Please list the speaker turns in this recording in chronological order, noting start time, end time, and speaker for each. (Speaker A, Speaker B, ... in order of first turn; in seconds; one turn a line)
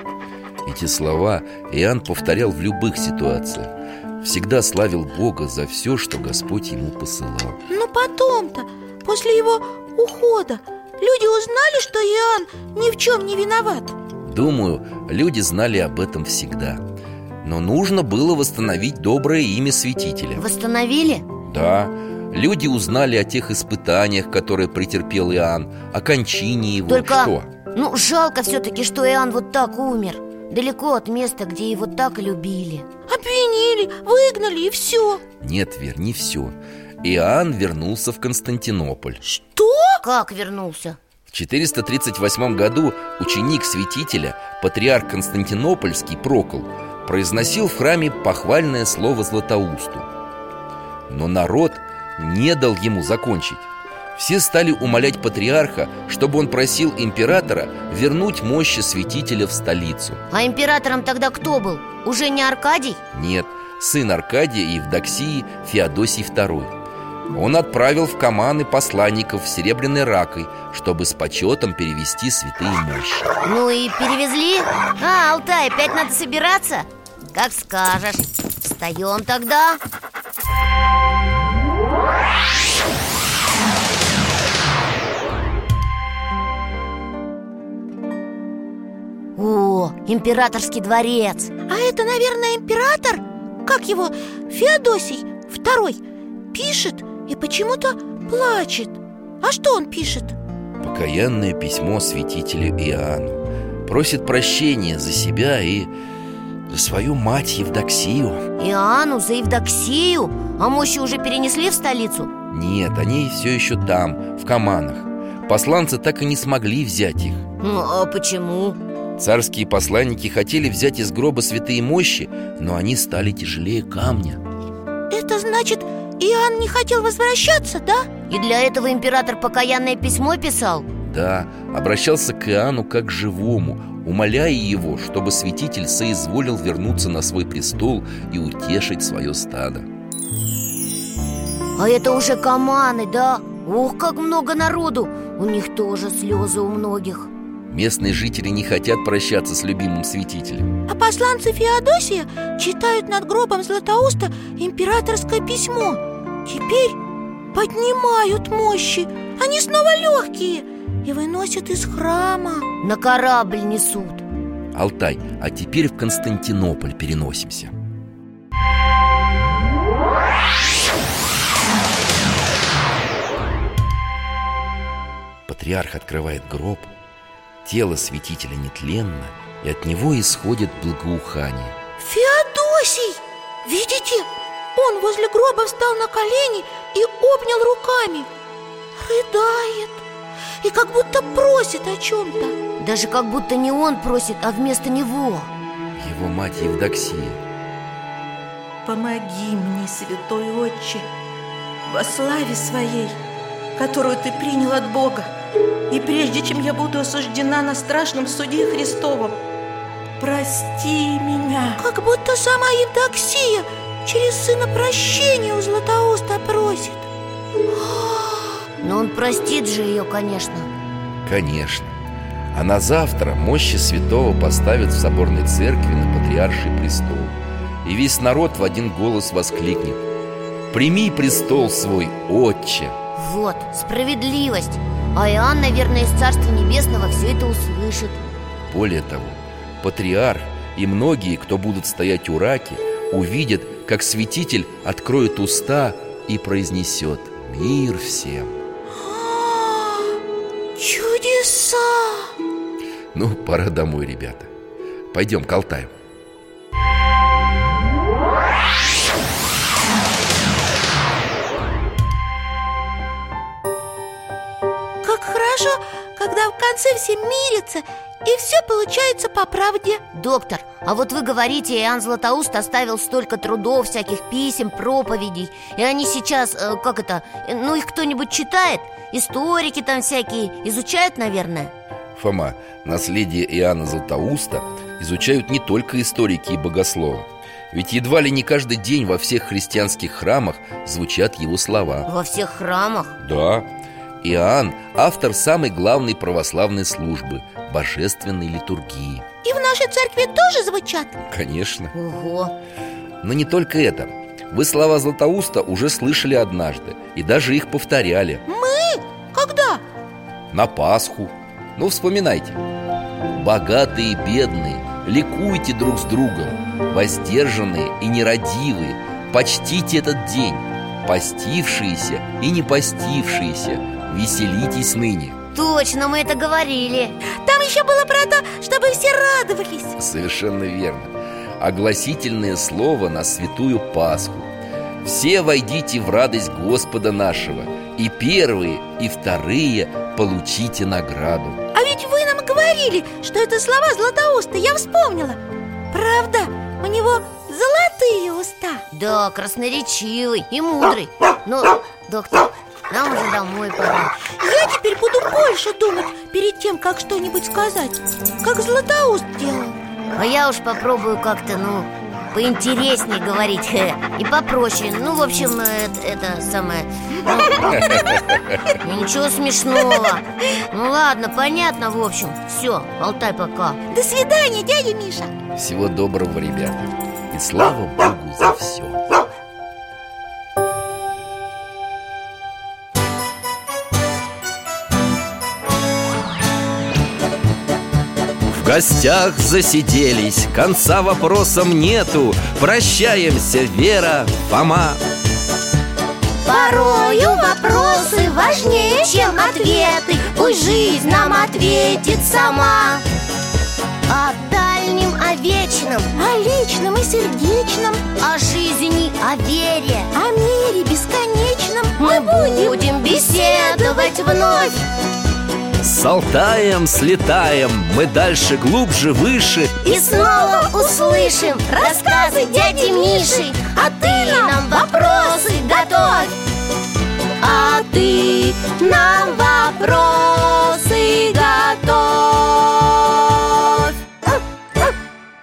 Speaker A: 0.6-7.6
Speaker B: 7.7-13.9
Speaker A: 14.2-16.8
Speaker A: 17.4-20.5
Speaker C: 20.4-21.2
Speaker A: 21.5-27.5
Speaker C: 26.9-32.9
Speaker B: 33.1-35.2
Speaker A: 35.4-39.2
Speaker B: 39.2-40.0
Speaker C: 40.0-41.0
Speaker A: 41.3-50.1
Speaker A: 51.1-60.2
Speaker C: 60.3-63.0
Speaker A: 63.1-66.7
Speaker A: 67.3-73.3
Speaker C: 73.4-79.8
Speaker C: 89.3-91.5
Speaker B: 91.7-96.0
Speaker B: 96.5-100.3
Speaker A: 100.8-105.9
Speaker A: 106.7-108.4
Speaker C: 108.6-112.3
Speaker A: 112.5-117.4
Speaker C: 117.6-118.8
Speaker A: 119.2-124.4
Speaker B: 125.1-128.1
Speaker C: 128.3-130.9
Speaker A: 131.0-139.9
Speaker C: 141.8-147.3
Speaker A: 147.7-150.8
Speaker B: 150.9-157.0
Speaker B: 157.5-162.7
Speaker C: 162.8-164.2
Speaker A: 164.7-167.7
Speaker A: 175.5-176.9
Speaker A: 177.6-181.8
Speaker B: 182.0-188.3
Speaker B: 188.9-190.0
Speaker B: 190.6-192.5
Speaker C: 192.8-195.5
Speaker A: 195.9-197.4
Speaker D: 198.8-201.1
Speaker D: 201.8-203.2
Speaker D: 203.8-205.3
Speaker D: 205.9-209.4
Speaker D: 210.2-211.8
Speaker B: 211.8-217.1
Speaker C: 218.8-220.7
Speaker A: 221.2-221.9
Speaker A: 222.5-230.0
Speaker A: 230.7-232.9
Speaker C: 233.2-238.2
Speaker A: 238.7-248.6
Speaker B: 248.9-250.2
Speaker B: 250.8-252.3
Speaker A: 253.1-254.5
Speaker A: 255.1-255.9
Speaker B: 265.0-270.0
Speaker C: 270.1-281.7
Speaker A: 282.1-292.1
Speaker C: 292.1-293.1
Speaker A: 293.2-293.7
Speaker A: 294.2-299.2
Speaker B: 299.4-301.1
Speaker A: 301.2-301.9
Speaker C: 301.9-302.5
Speaker A: 303.2-308.4
Speaker B: 308.5-309.8
Speaker A: 310.5-312.6
Speaker A: 313.3-325.4
Speaker C: 325.5-327.2
Speaker B: 327.3-330.0
Speaker A: 330.0-334.5
Speaker A: 335.0-341.6
Speaker B: 341.7-345.4
Speaker B: 345.9-348.8
Speaker C: 348.9-354.1
Speaker B: 354.4-359.7
Speaker C: 360.1-368.0
Speaker A: 367.7-368.4
Speaker C: 368.8-373.8
Speaker B: 373.9-375.3
Speaker A: 375.5-379.1
Speaker A: 388.5-395.0
Speaker C: 396.4-403.0
Speaker B: 396.5-401.1
Speaker C: 404.1-406.1
Speaker B: 406.1-408.0
Speaker C: 408.2-410.1
Speaker B: 410.1-414.3
Speaker C: 412.0-414.8
Speaker A: 415.8-419.8
Speaker C: 419.8-426.3
Speaker B: 419.9-425.5
Speaker C: 427.4-433.5